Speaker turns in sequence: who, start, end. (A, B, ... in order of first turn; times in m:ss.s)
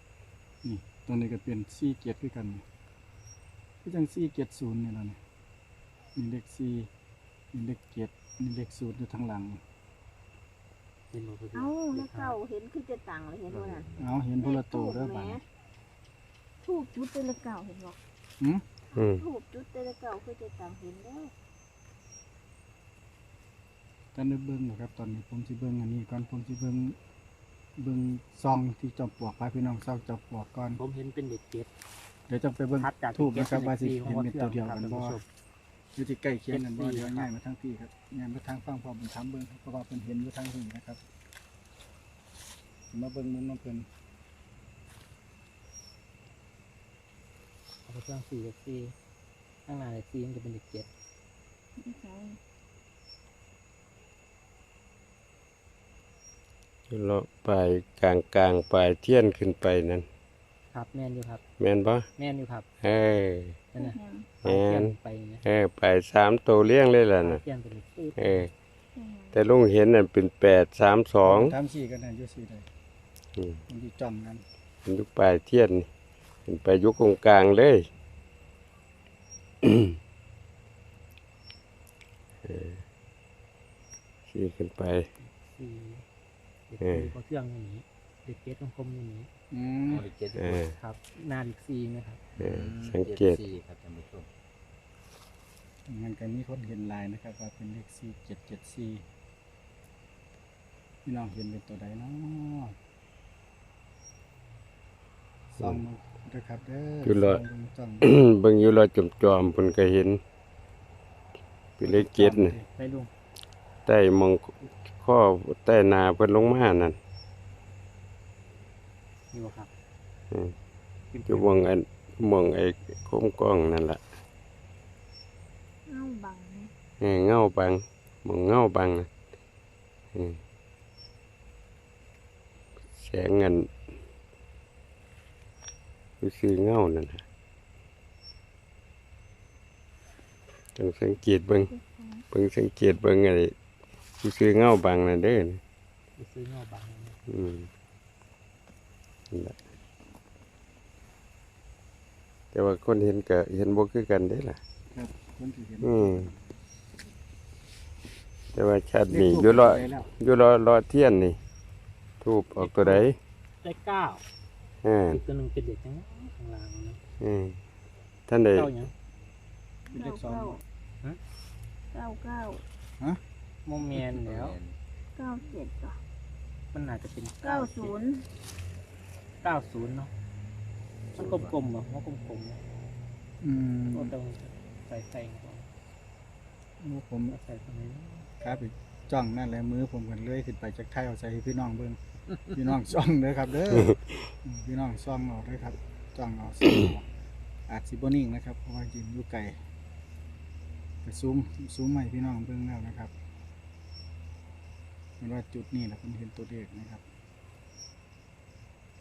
0:00.6-0:02.6 A
0:03.8-0:05.2 A
0:06.2-0:06.9 A
0:07.5-0:09.6 A
0:11.1-0:12.4 B
0:11.5-0:13.9 C
0:13.5-0:14.2 D
0:14.0-0:15.4 A
0:14.4-0:15.4 C
0:16.6-0:18.0 C
0:18.9-0:21.3 C
0:19.0-0:19.2 E
0:24.1-0:27.0 A
0:27.8-0:30.8 A
0:30.8-0:31.7 B
0:32.3-0:35.2 A
0:32.8-0:35.2 B
0:36.0-0:41.0 A
0:36.5-0:37.3 B
0:42.9-0:43.9 A
0:47.9-0:49.0 B
0:49.6-0:50.9 B
0:51.8-0:52.4 C
0:56.9-1:00.1 E
1:00.7-1:01.4 B
1:01.6-1:02.1 E
1:02.2-1:02.6 B
1:02.8-1:03.6 E
1:03.7-1:05.4 B
1:03.8-1:04.3 C
1:04.4-1:07.4 E
1:07.2-1:08.5 B
1:08.2-1:08.5 E
1:08.9-1:09.5 C
1:09.3-1:11.6 E
1:11.2-1:12.7 A
1:13.4-1:13.6 E
1:13.7-1:14.5 A
1:14.9-1:15.9 E
1:16.5-1:17.9 E
1:19.6-1:19.9 E
1:22.4-1:22.8 E
1:24.3-1:25.1 E
1:25.2-1:26.1 B
1:26.7-1:29.3 B
1:26.8-1:27.1 E
1:29.5-1:30.0 A
1:29.9-1:30.7 D
1:30.4-1:30.8 E
1:30.8-1:32.2 B
1:32.4-1:34.3 D
1:32.4-1:33.4 E
1:35.9-1:39.0 A
1:41.0-1:42.8 A
1:45.5-1:48.1 A
1:47.0-1:47.4 E
1:48.0-1:50.2 E
1:51.8-1:52.6 E
1:51.8-1:52.7 A
1:52.8-1:53.1 B
1:53.9-1:57.0 E
1:59.3-1:59.7 B
2:00.3-2:00.6 E
2:01.1-2:01.6 B
2:01.3-2:04.0 E
2:05.9-2:06.7 C
2:07.0-2:09.1 E
2:10.1-2:10.4 E
2:12.9-2:13.7 E
2:16.2-2:17.2 E
2:20.8-2:21.7 E
2:21.6-2:22.2 C
2:22.3-2:23.5 E
2:24.2-2:25.6 E
2:26.2-2:27.2 B
2:27.3-2:27.7 E
2:29.3-2:29.6 E
2:32.5-2:34.6 E
2:34.9-2:36.3 A
2:35.8-2:36.3 E
2:38.5-2:41.4 E
2:39.1-2:40.1 A
2:42.2-2:43.2 E
2:42.6-2:43.1 B
2:43.6-2:44.2 B
2:44.8-2:45.2 E
2:45.1-2:47.0 B
2:47.2-2:47.6 E
2:48.3-2:48.7 E
2:48.5-2:48.9 B
2:49.9-2:50.6 C
2:49.9-2:50.6 A
2:51.9-2:52.6 C
2:53.6-2:54.6 B
2:54.1-2:54.8 D
2:55.1-2:56.0 C
2:56.7-2:58.0 B
2:57.4-2:58.3 C
2:59.4-3:00.1 B
3:01.1-3:01.6 D
3:01.2-3:02.6 B
3:03.4-3:04.1 A
3:03.9-3:05.7 B
3:06.8-3:07.4 A
3:07.3-3:08.3 B
3:08.4-3:17.1 A
3:13.7-3:14.1 E
3:17.7-3:19.6 A
3:21.0-3:23.1 A
3:25.2-3:27.0 A